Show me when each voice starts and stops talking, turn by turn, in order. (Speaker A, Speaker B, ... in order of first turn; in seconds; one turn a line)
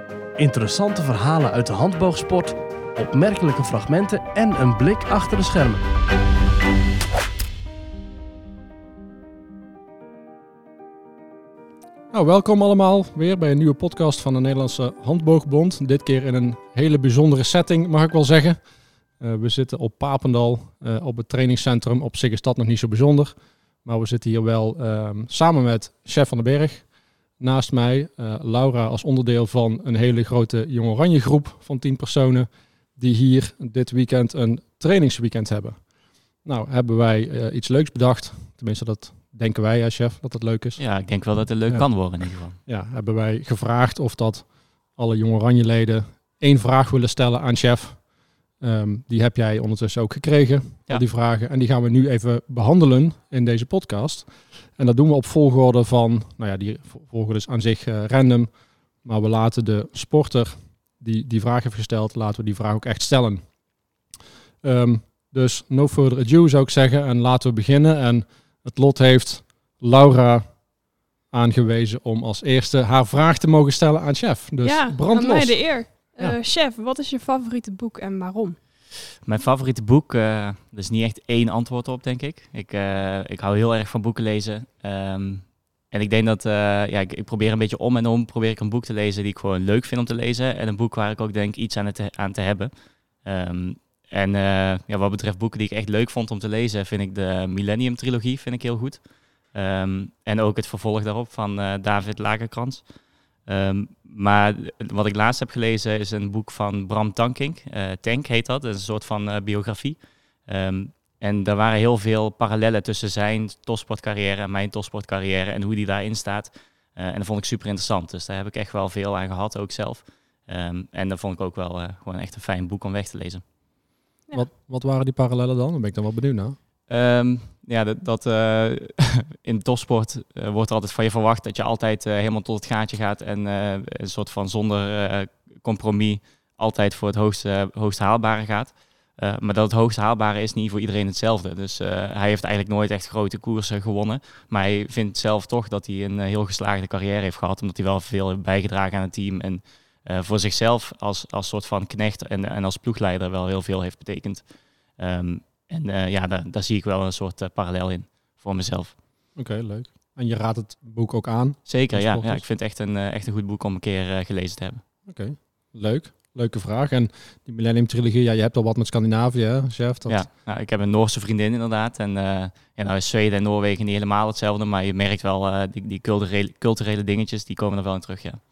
Speaker A: 0.4-5.8
Speaker B: 12.1-18.6
Speaker B: 19.2-35.9
Speaker B: 36.4-40.9
Speaker C: 40.8-42.6
Speaker B: 41.7-48.1
Speaker B: 48.6-63.5
Speaker B: 64.6-70.8
Speaker B: 71.3-76.4
Speaker D: 74.6-78.6
Speaker C: 79.2-102.9
Speaker C: 103.5-123.4
Speaker B: 124.3-126.6
Speaker C: 126.9-159.0
Speaker B: 159.3-162.4
Speaker C: 161.7-164.8
Speaker B: 165.1-170.3
Speaker C: 170.1-178.4